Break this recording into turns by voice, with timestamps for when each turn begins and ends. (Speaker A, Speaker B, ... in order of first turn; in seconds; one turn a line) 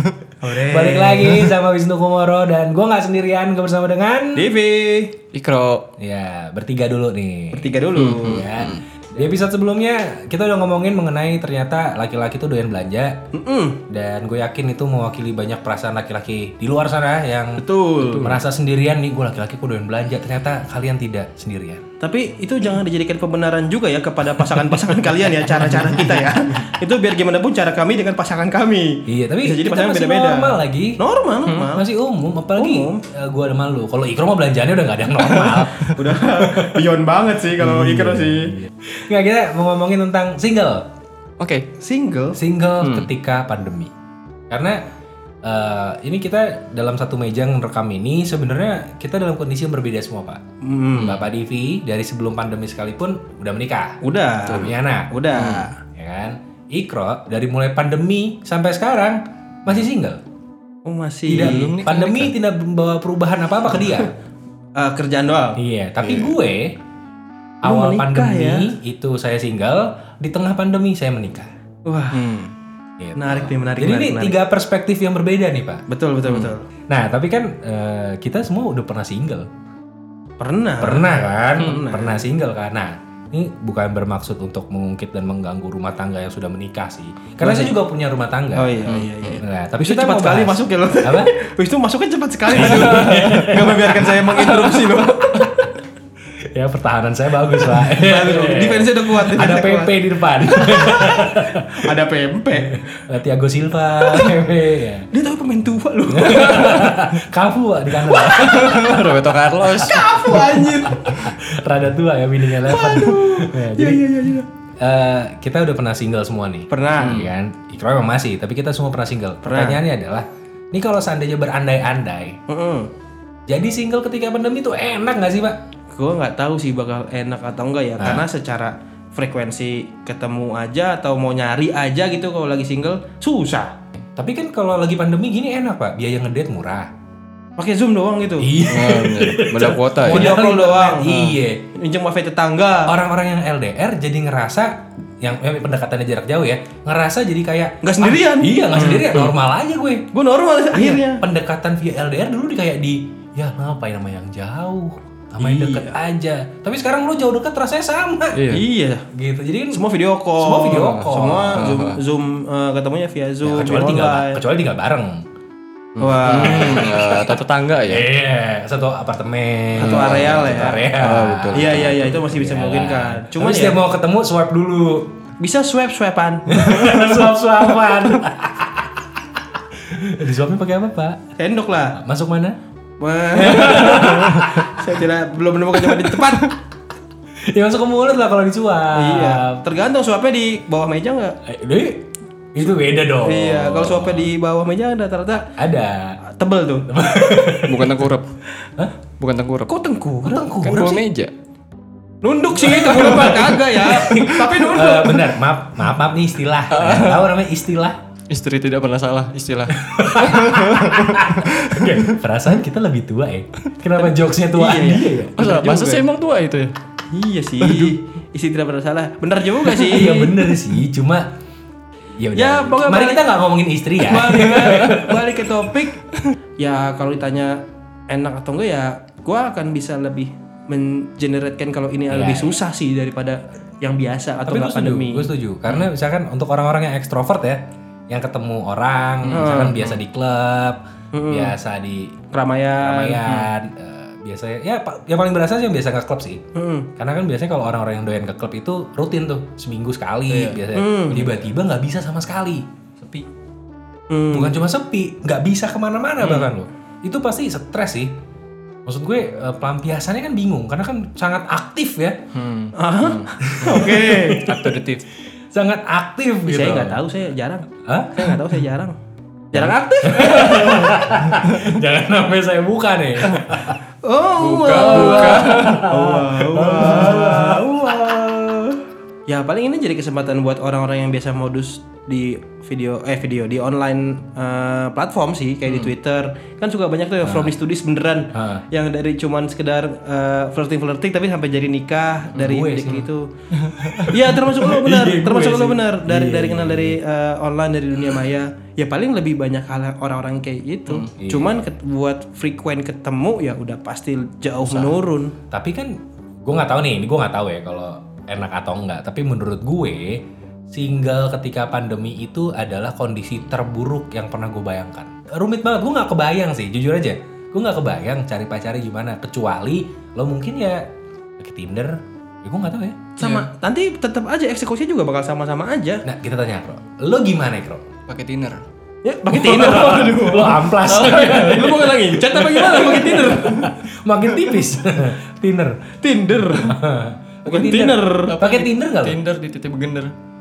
Speaker A: 0.4-1.5
Speaker B: 0.6-4.5
Speaker A: 4.4-5.2
Speaker C: 5.3-5.9
Speaker B: 6.0-13.2
Speaker A: 7.5-8.5
Speaker C: 7.9-8.8
Speaker A: 13.3-13.8
Speaker B: 13.9-21.8
Speaker A: 17.6-18.4
Speaker A: 22.0-31.9
Speaker C: 25.7-26.3
Speaker B: 29.1-36.8
Speaker A: 32.5-33.0
Speaker C: 35.3-35.9
Speaker A: 35.8-38.6
Speaker B: 38.9-40.9
Speaker C: 41.4-41.7
Speaker A: 41.8-42.4
Speaker B: 42.4-43.9
Speaker C: 42.8-43.1
Speaker B: 44.5-44.8
Speaker B: 45.5-50.4
Speaker A: 50.6-51.2
Speaker B: 51.0-55.1
Speaker A: 54.0-55.8
Speaker C: 54.5-54.7
Speaker C: 55.4-55.7
Speaker B: 55.8-60.2
Speaker A: 60.9-61.8
Speaker B: 61.3-64.1
Speaker C: 61.3-62.3
Speaker A: 64.8-65.6
Speaker B: 65.6-66.8
Speaker C: 66.0-66.3
Speaker A: 67.6-68.7
Speaker B: 67.6-71.5
Speaker A: 71.9-72.4
Speaker C: 72.1-72.5
Speaker B: 73.0-75.8
Speaker A: 73.2-74.4
Speaker A: 75.9-76.7
Speaker C: 76.2-76.5
Speaker B: 76.9-79.5
Speaker A: 80.4-82.2
Speaker B: 80.8-91.3
Speaker A: 87.4-87.8
Speaker A: 88.5-95.7
Speaker B: 92.5-94.1
Speaker C: 92.7-93.4
Speaker B: 96.4-101.7
Speaker A: 97.8-102.8
Speaker B: 102.7-105.1
Speaker A: 105.1-106.9
Speaker B: 106.1-109.1
Speaker C: 108.1-110.4
Speaker A: 109.7-111.1
Speaker B: 110.0-114.1
Speaker A: 112.6-114.5
Speaker B: 114.8-122.4
Speaker A: 116.7-117.2
Speaker C: 117.0-117.3
Speaker A: 119.4-119.8
Speaker A: 122.5-122.9
Speaker B: 123.5-125.6
Speaker A: 125.9-133.8
Speaker B: 128.0-128.3
Speaker B: 134.2-136.9
Speaker A: 137.6-138.5
Speaker B: 138.4-141.6
Speaker C: 138.7-140.3
Speaker A: 140.1-141.1
Speaker C: 141.1-141.4
Speaker A: 141.7-143.0
Speaker B: 142.9-150.1
Speaker A: 147.8-149.3
Speaker A: 150.1-151.2
Speaker B: 150.7-158.5
Speaker A: 155.4-156.0
Speaker C: 158.3-158.6
Speaker A: 158.5-159.1
Speaker B: 159.1-159.8
Speaker A: 159.7-164.4
Speaker B: 160.4-161.7
Speaker C: 161.1-162.0
Speaker B: 163.4-165.2
Speaker A: 166.0-166.9
Speaker C: 166.0-168.1
Speaker B: 166.3-167.3
Speaker B: 167.9-175.1
Speaker A: 169.8-170.9
Speaker C: 169.8-172.1
Speaker A: 171.5-173.8
Speaker A: 175.4-176.9
Speaker B: 176.5-178.9
Speaker B: 179.8-181.2
Speaker A: 181.4-182.0
Speaker B: 182.0-182.6
Speaker A: 183.0-186.5
Speaker B: 183.4-184.7
Speaker B: 187.5-189.6
Speaker A: 188.9-191.4
Speaker B: 191.5-194.3
Speaker A: 193.2-195.5
Speaker B: 195.6-196.2
Speaker A: 196.2-197.0
Speaker B: 196.9-198.1
Speaker C: 197.7-198.3
Speaker C: 199.2-199.7
Speaker A: 199.7-200.4
Speaker B: 200.2-201.0
Speaker C: 200.4-201.3
Speaker A: 202.2-205.3
Speaker B: 202.6-208.0
Speaker C: 206.7-207.3
Speaker C: 208.3-212.1
Speaker B: 209.8-215.3
Speaker A: 214.5-216.1
Speaker C: 215.4-216.8
Speaker A: 217.1-220.4
Speaker C: 217.6-217.9
Speaker B: 219.7-221.3
Speaker B: 222.2-225.2
Speaker A: 222.3-223.4
Speaker A: 224.0-226.1
Speaker C: 224.5-224.9
Speaker A: 226.6-235.3
Speaker B: 232.1-232.6
Speaker B: 234.5-242.2
Speaker A: 239.3-239.9
Speaker C: 239.3-239.9
Speaker A: 241.1-241.5
Speaker A: 242.3-243.5
Speaker B: 242.8-246.4
Speaker A: 246.6-246.9
Speaker B: 247.0-252.7
Speaker C: 250.3-250.6
Speaker A: 250.7-251.3
Speaker C: 253.0-253.3
Speaker A: 254.1-254.6
Speaker B: 254.3-258.1
Speaker C: 256.2-256.5
Speaker B: 258.9-262.3
Speaker C: 262.3-265.0
Speaker A: 262.7-264.5
Speaker B: 263.4-264.8
Speaker B: 265.5-267.0
Speaker A: 266.5-268.9
Speaker B: 267.9-268.4
Speaker A: 269.5-270.7
Speaker B: 269.6-273.8
Speaker C: 270.2-271.8
Speaker A: 274.0-293.3
Speaker C: 274.4-275.9
Speaker B: 274.7-277.7
Speaker B: 287.2-287.6
Speaker B: 288.4-288.6
Speaker B: 292.3-293.1
Speaker C: 293.6-294.2
Speaker A: 294.1-305.3
Speaker B: 294.2-297.0
Speaker B: 301.2-301.6
Speaker C: 304.7-304.9
Speaker B: 305.5-320.8
Speaker B: 321.4-323.1
Speaker A: 323.2-326.0
Speaker C: 323.2-323.5
Speaker B: 326.1-327.9
Speaker C: 328.1-328.6
Speaker A: 329.0-330.4
Speaker C: 329.3-333.3
Speaker B: 329.5-331.8
Speaker A: 331.1-333.8
Speaker B: 332.5-335.8
Speaker A: 336.0-336.8
Speaker B: 336.5-339.2
Speaker A: 337.5-338.4
Speaker C: 338.3-340.1